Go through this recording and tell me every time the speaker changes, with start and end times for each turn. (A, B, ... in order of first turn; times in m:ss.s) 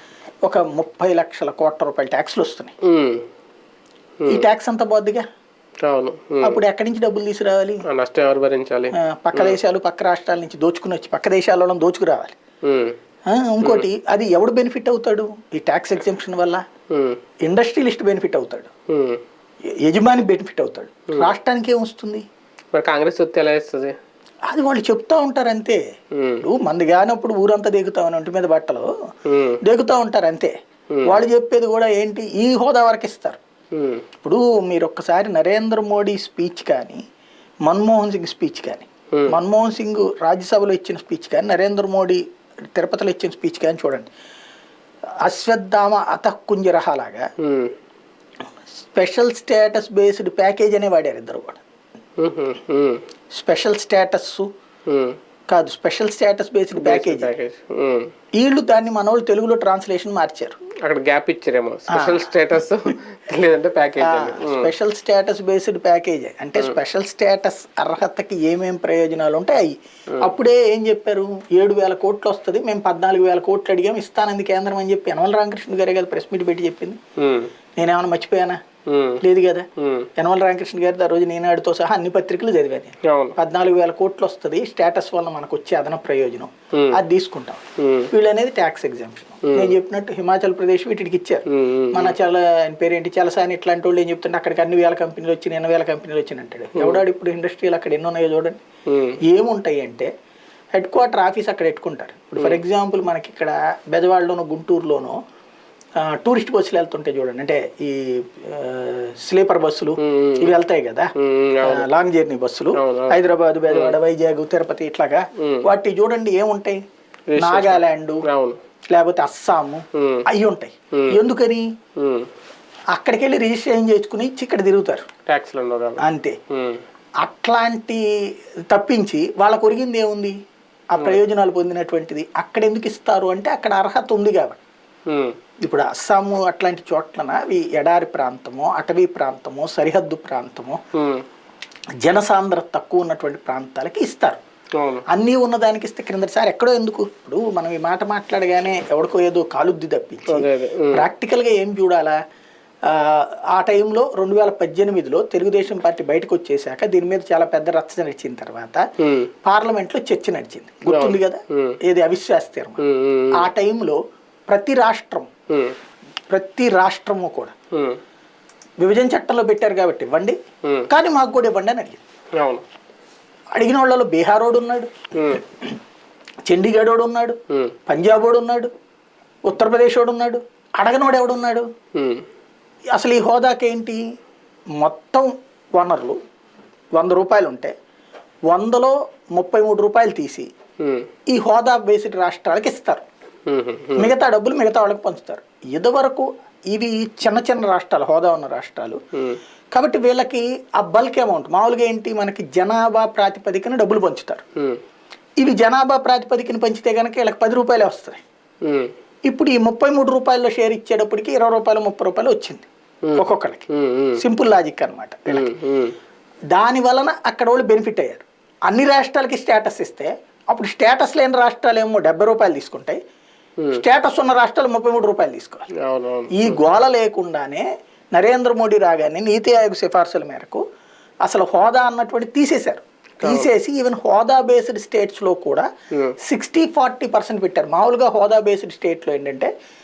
0:00.4-0:02.7 A
0:02.8-0:03.2 B
0:04.3-0:05.2 A
0:05.8-0:06.5 B
0:06.4-0:07.8 A
0:07.9-0:08.9 B
0:08.9-0:12.4 A
0:12.6-0:12.9 B
0:13.3-0:16.6 A
0:16.9-0:17.2 B
0:17.4-0:18.7 A
0:18.9-0:19.2 B
0:19.8-0:22.3 A
0:22.7-0:24.0 B
0:24.5-0:25.8 A
0:26.2-0:26.4 B
0:26.4-0:28.9 A
0:29.2-0:29.6 B
0:29.6-0:30.5 A
0:31.0-0:33.4 A
0:33.7-0:34.0 B
0:34.2-0:37.0 A
0:37.6-0:42.2 A
0:42.7-0:44.1 A
0:45.2-0:47.3 A
0:47.4-0:47.7 B
0:48.8-0:51.6 A
0:52.2-0:53.0 B
0:53.3-0:54.5 A
0:54.8-0:55.2 B
0:55.5-0:57.3 A
0:56.9-0:58.1 B
0:58.4-1:00.6 A
1:00.8-1:04.7 B
1:01.9-1:02.4 A
1:04.0-1:17.0 A
1:17.2-1:17.5 B
1:17.8-1:18.6 A
1:18.9-1:19.2 B
1:19.2-1:38.6 A
1:19.8-1:20.0 B
1:23.1-1:23.3 B
1:27.8-1:28.0 B
1:31.5-1:32.0 B
1:38.9-1:39.1 B
1:39.2-1:40.1 A
1:40.7-1:45.2 A
1:46.0-1:56.8 A
1:50.0-1:50.4 B
1:51.2-1:51.7 B
1:52.8-1:53.2 B
1:57.3-1:57.7 B
1:57.4-1:58.2 A
1:58.3-1:58.6 B
1:58.9-2:01.6 A
1:59.9-2:00.2 B
2:02.0-2:02.3 B
2:02.9-2:05.0 A
2:05.2-2:06.0 B
2:06.0-2:06.4 A
2:06.5-2:06.8 B
2:07.2-2:08.0 A
2:08.7-2:10.4 A
2:10.9-2:14.6 A
2:15.1-2:15.3 B
2:15.6-2:20.8 A
2:21.0-2:21.2 B
2:22.0-2:24.4 A
2:24.8-2:25.0 B
2:25.1-2:32.2 A
2:32.8-2:38.8 A
2:39.4-2:45.3 A
2:42.9-2:43.2 B
2:46.3-2:47.5 A
2:48.8-2:50.4 A
2:50.9-2:52.0 A
2:52.4-2:52.6 B
2:53.5-2:55.8 A
2:56.4-2:58.7 A
2:59.4-3:01.6 A
3:01.9-3:02.2 B
3:02.9-3:04.0 A
3:04.8-3:06.2 A
3:06.9-3:07.7 A
3:08.5-3:10.5 A
3:10.8-3:11.0 B
3:11.3-3:13.0 A
3:13.5-3:14.0 B
3:14.0-3:19.0 A
3:19.7-3:24.4 A
3:25.4-3:28.2 A
3:28.6-3:28.9 B
3:29.3-3:35.5 A
3:33.1-3:34.1 B
3:35.4-3:35.9 B
3:36.5-3:43.0 A
3:43.7-3:45.7 A
3:45.7-3:46.4 B
3:46.3-3:50.6 A
3:51.2-3:55.7 A
3:56.2-3:59.5 A